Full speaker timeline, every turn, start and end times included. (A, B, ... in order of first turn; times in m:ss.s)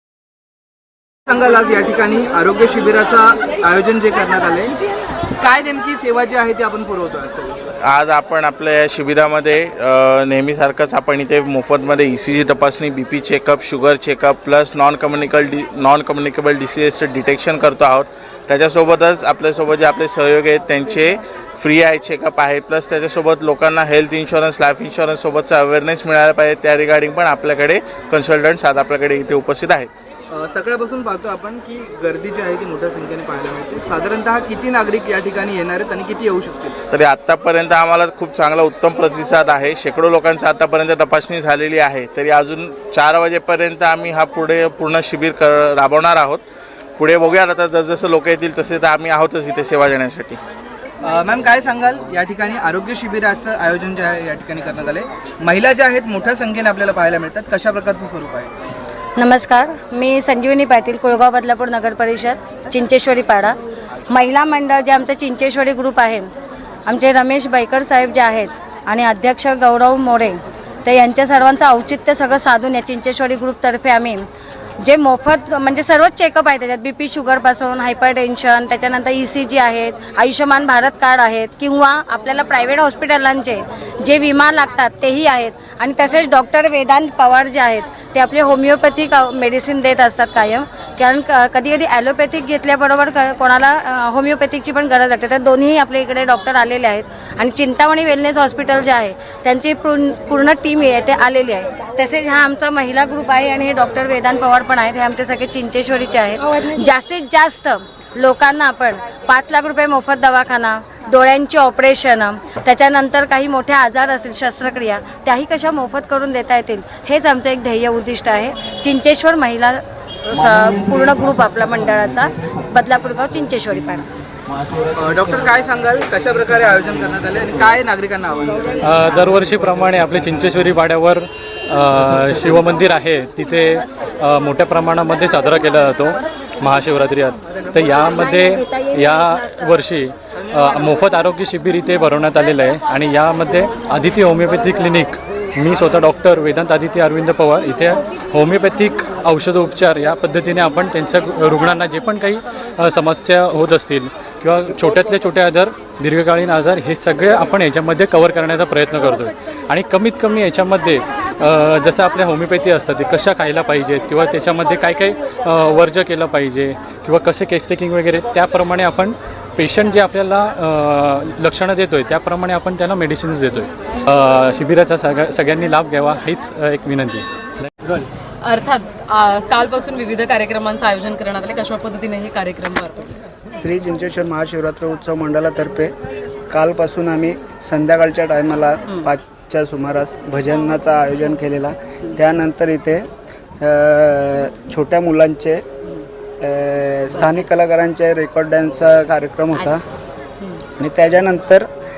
0:01.3-0:04.8 A
0:05.4-0:07.6 A
0:07.8-0:29.9 B
0:30.3-0:36.8 A
0:36.9-0:46.4 B
0:47.0-0:50.4 B
0:51.0-0:58.5 A
0:59.2-1:03.6 C
1:04.1-1:06.3 C
1:06.8-1:14.2 C
1:14.8-2:04.1 C
2:05.0-2:08.8 A
2:08.8-2:57.2 D
2:58.0-3:03.1 E
3:03.5-3:05.9 F
3:06.5-3:13.1 F
3:13.6-3:15.6 F
3:16.4-3:19.8 F
3:20.8-3:21.7 F